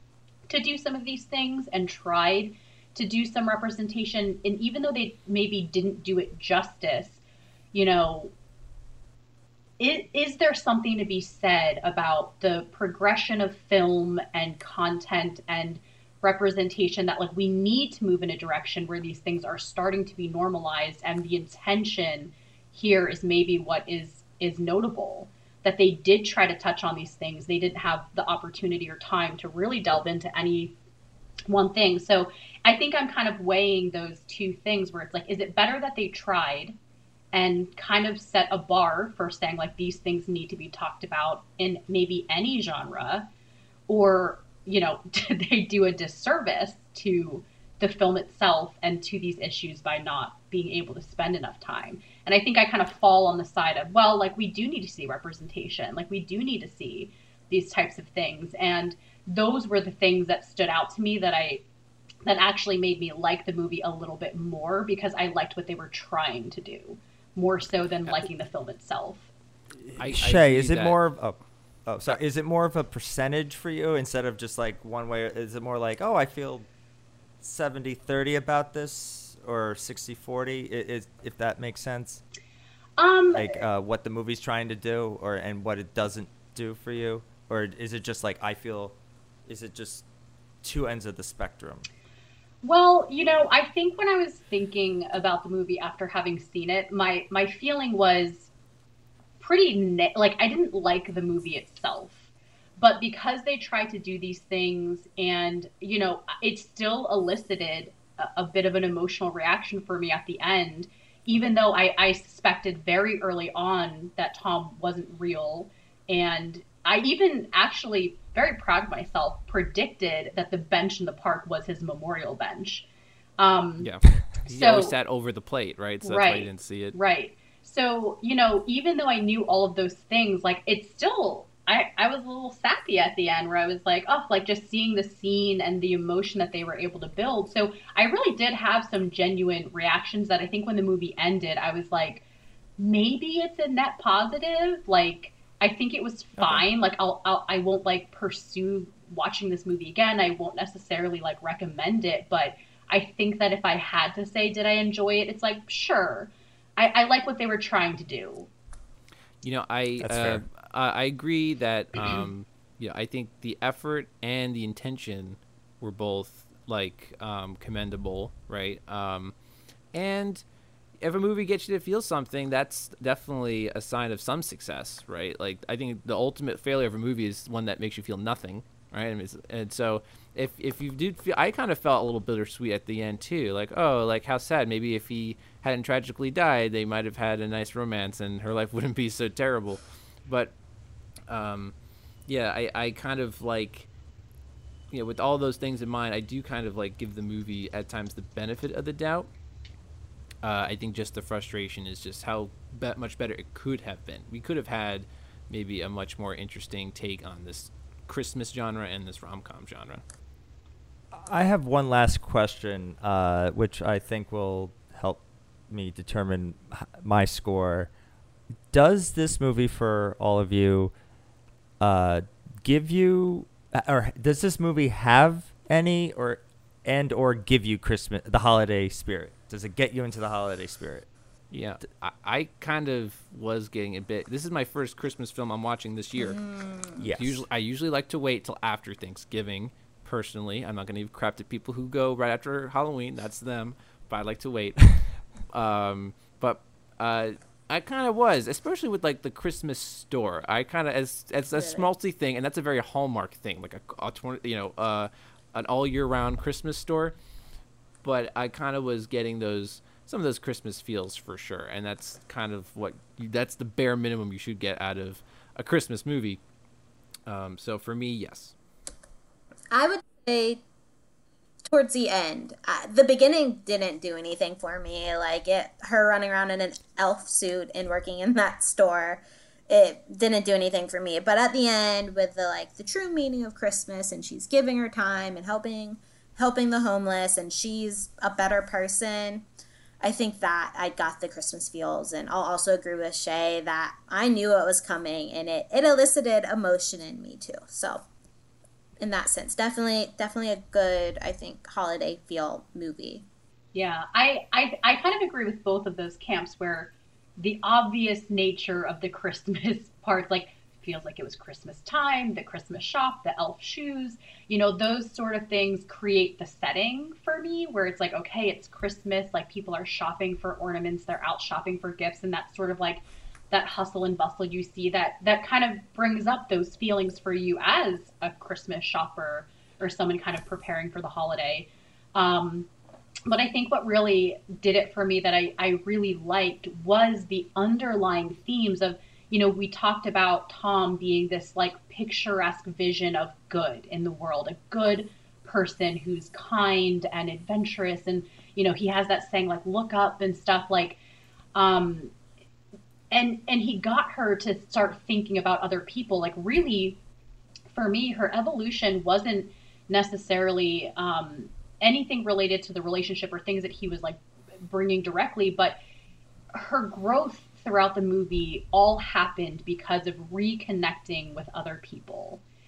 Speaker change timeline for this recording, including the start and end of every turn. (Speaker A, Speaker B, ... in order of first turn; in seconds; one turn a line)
Speaker A: 0.5-7.2
Speaker A: 7.7-8.3
Speaker A: 9.8-30.7
Speaker A: 31.5-36.8
Speaker A: 37.3-43.3
Speaker A: 43.9-61.6
Speaker A: 62.3-69.3
Speaker B: 69.9-76.7
Speaker C: 70.0-71.0
Speaker B: 77.4-82.2
Speaker A: 83.0-83.6
Speaker B: 83.3-90.0
Speaker B: 90.6-91.9
Speaker A: 92.6-98.5
Speaker A: 99.4-122.9
Speaker A: 123.4-123.9
Speaker C: 123.8-127.0
Speaker A: 124.5-125.0
Speaker A: 126.0-142.2
Speaker A: 142.8-158.5
Speaker B: 146.4-146.7
Speaker C: 159.4-169.3
Speaker B: 160.0-160.4
Speaker C: 169.9-170.4
Speaker C: 171.0-190.5
Speaker C: 191.3-191.7
Speaker C: 192.3-193.9
Speaker C: 194.9-199.3
Speaker C: 200.4-210.0
Speaker B: 211.1-217.9
Speaker B: 218.7-220.9
Speaker B: 221.8-231.1
Speaker C: 231.5-236.4
Speaker D: 236.2-237.0
Speaker B: 237.0-237.4
Speaker C: 237.0-244.9
Speaker C: 245.5-257.1
Speaker D: 251.5-251.9
Speaker C: 258.0-266.4
Speaker C: 267.3-268.5
Speaker D: 269.7-270.6
Speaker D: 271.7-289.5
Speaker D: 290.0-298.0
Speaker D: 299.0-303.2
Speaker A: 303.7-332.7
Speaker A: 333.3-351.0
Speaker A: 351.6-352.1
Speaker A: 353.1-357.0
Speaker A: 357.7-365.8
Speaker A: 366.5-372.4